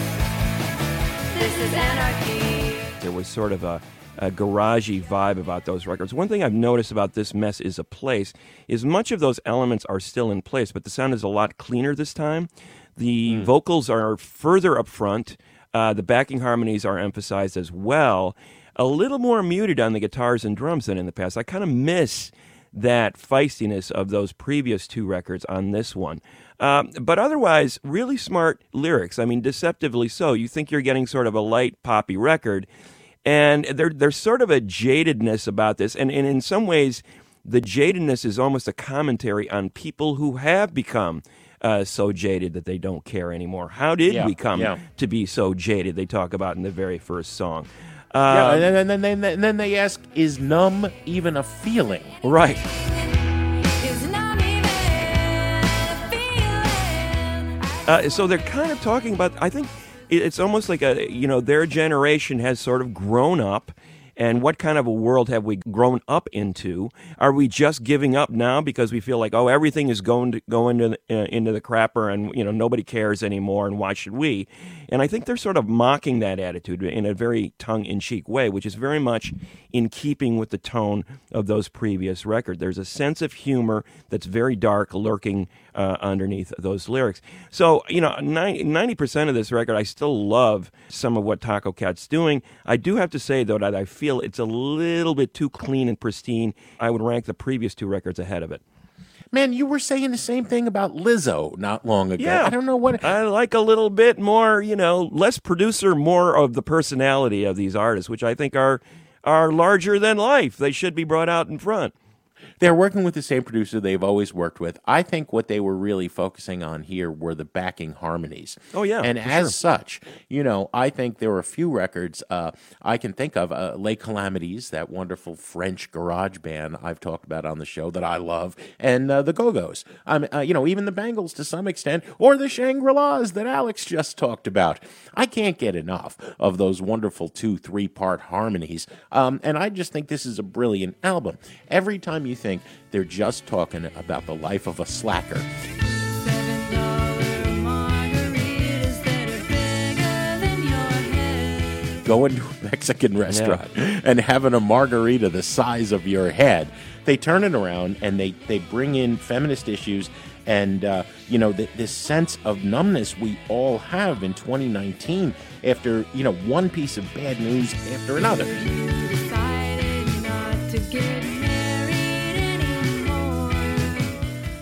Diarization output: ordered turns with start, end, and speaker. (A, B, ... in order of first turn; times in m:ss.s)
0:01.3-0:02.9 A
0:03.0-0:32.7 B
0:13.2-0:13.5 C
0:33.2-0:48.7 B
0:44.1-0:44.8 C
0:48.3-0:52.2 C
0:52.2-0:52.6 B
0:52.8-0:53.1 A
0:53.8-0:57.6 A
0:57.8-1:38.6 B
1:39.3-1:43.1 C
1:42.2-1:51.9 B
1:52.6-2:25.5 C
1:58.7-1:59.5 B
2:26.0-2:31.9 A
2:32.0-2:48.5 C
2:33.3-2:33.6 B
2:48.5-2:54.1 A